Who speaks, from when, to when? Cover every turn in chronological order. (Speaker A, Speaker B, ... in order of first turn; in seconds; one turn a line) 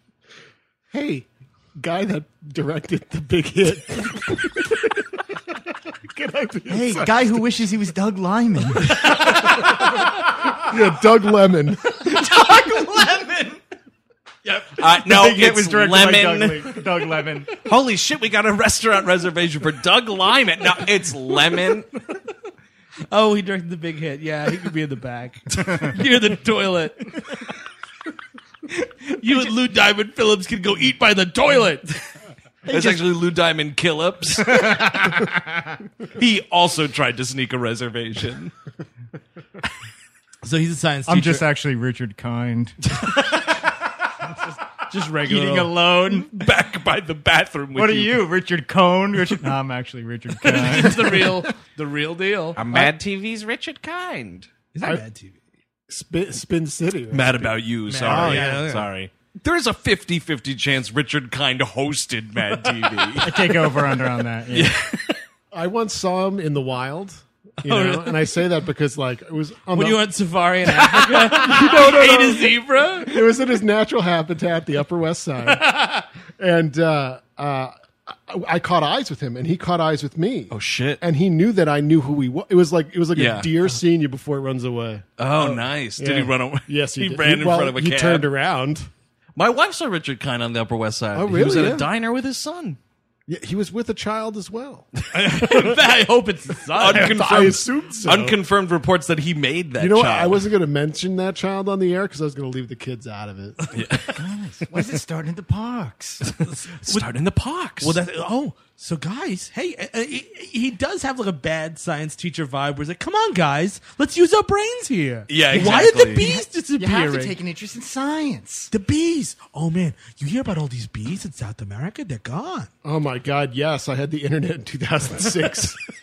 Speaker A: 0.9-7.4
Speaker B: 6.7-9.6
Speaker A: 9.4-9.8
Speaker A: 10.5-12.2
Speaker B: 11.9-13.6
Speaker B: 14.4-17.5
Speaker C: 14.7-16.8
Speaker C: 17.6-21.9
Speaker D: 23.1-27.3
Speaker D: 29.1-32.0
Speaker B: 32.6-33.0
Speaker C: 32.7-35.1
Speaker B: 34.4-35.7
Speaker C: 36.1-38.5
Speaker D: 40.4-41.5
Speaker B: 41.1-43.6
Speaker D: 44.9-45.7
Speaker B: 45.2-46.3
Speaker C: 46.1-48.2
Speaker B: 47.7-51.4
Speaker D: 50.4-52.9
Speaker C: 52.5-54.5
Speaker D: 54.7-55.4
Speaker A: 55.9-58.6
Speaker C: 57.1-63.9
Speaker D: 57.9-58.9
Speaker B: 63.2-64.8
Speaker C: 64.5-65.2
Speaker A: 65.5-70.0
Speaker D: 67.6-68.3
Speaker D: 69.7-73.3
Speaker A: 70.8-75.7
Speaker D: 75.4-76.0
Speaker A: 76.4-88.9
Speaker C: 80.5-81.0
Speaker C: 83.1-83.6
Speaker C: 85.2-88.3
Speaker C: 89.3-92.8
Speaker A: 91.1-91.9
Speaker A: 93.3-94.9
Speaker D: 95.1-97.5
Speaker C: 96.8-100.4
Speaker A: 96.8-98.4
Speaker A: 99.8-103.7
Speaker C: 103.7-104.2
Speaker B: 104.1-106.2
Speaker D: 106.3-107.1
Speaker C: 106.8-108.0
Speaker D: 107.8-117.3
Speaker C: 115.3-116.2
Speaker B: 115.5-118.7
Speaker D: 118.7-122.7
Speaker A: 122.8-125.8